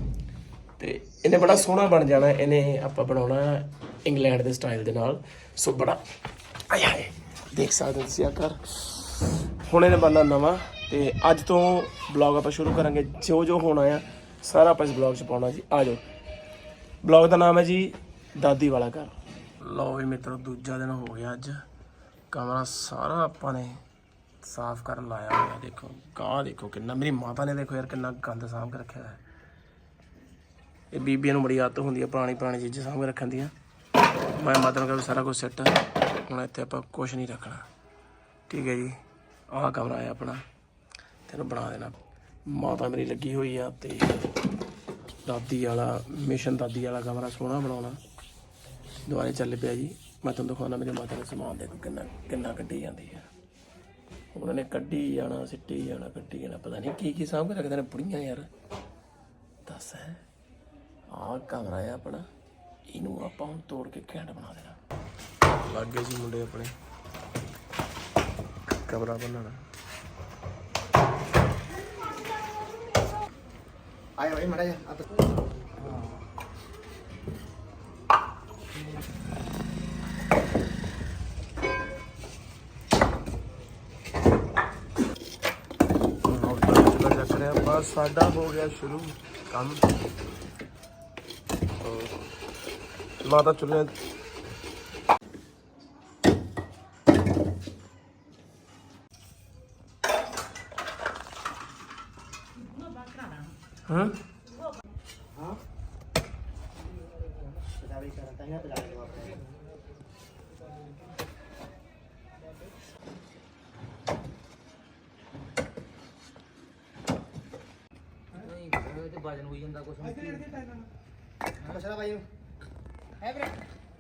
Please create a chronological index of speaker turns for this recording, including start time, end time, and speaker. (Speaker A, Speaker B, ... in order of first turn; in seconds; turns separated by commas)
Speaker A: 0.8-6.0, Speaker A: 6.7-16.0, Speaker A: 17.0-21.6, Speaker A: 22.3-23.8, Speaker A: 24.4-29.2, Speaker A: 30.9-33.5, Speaker A: 34.4-37.7, Speaker A: 38.5-39.0, Speaker A: 39.5-40.4, Speaker A: 41.3-44.2, Speaker A: 45.2-48.0, Speaker A: 49.1-53.3, Speaker A: 54.3-58.5, Speaker A: 59.6-60.2, Speaker A: 61.1-62.3, Speaker A: 62.9-64.8, Speaker A: 65.6-66.7, Speaker A: 68.8-69.6, Speaker B: 74.2-75.2, Speaker A: 86.2-89.9, Speaker A: 91.8-92.2, Speaker A: 93.2-94.0, Speaker A: 103.9-104.2, Speaker B: 107.8-109.4, Speaker C: 118.3-120.6, Speaker B: 121.7-122.2